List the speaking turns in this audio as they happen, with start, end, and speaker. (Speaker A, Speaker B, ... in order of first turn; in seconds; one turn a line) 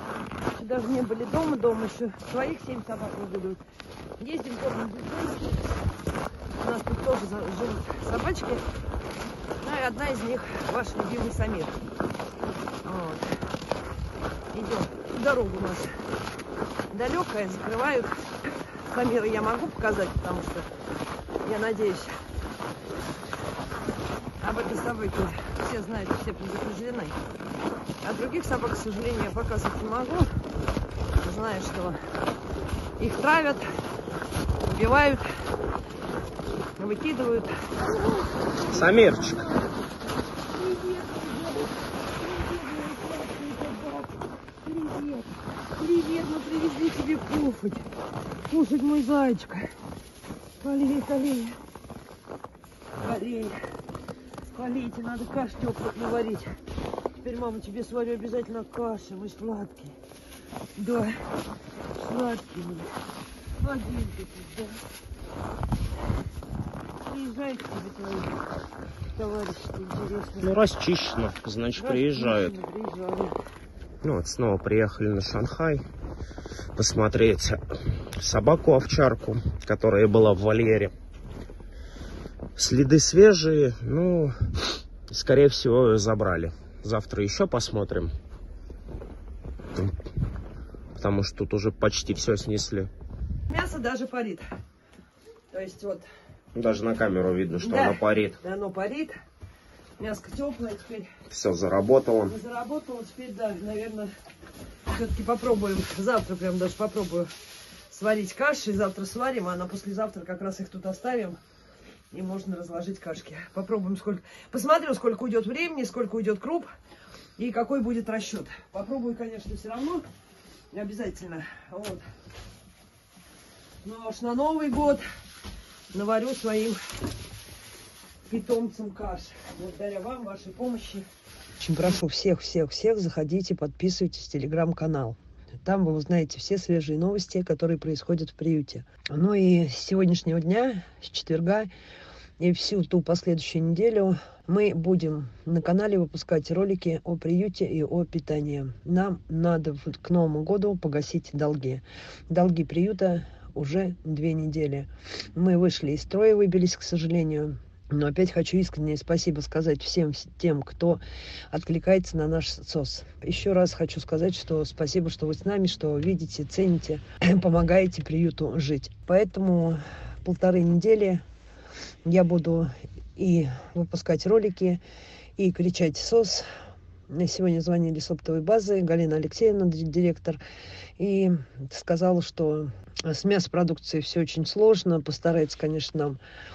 Speaker A: 0.5-3.6
Speaker A: 4.2-5.6
Speaker A: 6.6-8.6
Speaker A: 9.6-11.8
Speaker A: 12.8-13.4
Speaker A: 14.5-16.0
Speaker A: 16.9-20.7
Speaker A: 21.4-22.2
Speaker A: 24.4-27.2
Speaker A: 28.0-30.3
Speaker A: 31.2-32.0
Speaker A: 33.0-33.7
Speaker A: 34.6-35.4
Speaker A: 36.8-37.9
Speaker A: 38.6-39.7
Speaker B: 38.7-39.4
Speaker A: 40.6-47.8
Speaker A: 48.5-49.8
Speaker A: 50.6-51.6
Speaker A: 53.0-53.6
Speaker A: 54.5-56.6
Speaker A: 57.2-60.0
Speaker A: 60.8-61.2
Speaker A: 62.0-62.9
Speaker A: 63.6-64.8
Speaker A: 67.1-68.4
Speaker A: 69.1-70.5
Speaker B: 70.4-72.6
Speaker A: 71.8-73.4
Speaker B: 74.0-75.8
Speaker B: 76.8-77.6
Speaker B: 78.2-80.9
Speaker B: 82.6-84.4
Speaker B: 85.1-88.1
Speaker B: 91.0-92.9
Speaker A: 93.5-94.5
Speaker A: 95.5-96.1
Speaker B: 96.5-98.4
Speaker A: 97.6-99.2
Speaker A: 100.0-101.1
Speaker B: 101.3-102.3
Speaker A: 102.3-104.1
Speaker A: 104.9-107.3
Speaker A: 107.9-111.4
Speaker A: 112.1-116.7
Speaker A: 117.4-120.0
Speaker A: 120.7-122.1
Speaker A: 123.8-125.0
Speaker A: 125.9-126.8
Speaker A: 128.3-131.1
Speaker A: 131.6-141.7
Speaker A: 142.4-171.2
Speaker A: 172.1-174.8
Speaker A: 175.4-176.5
Speaker A: 177.1-180.4
Speaker A: 181.0-186.2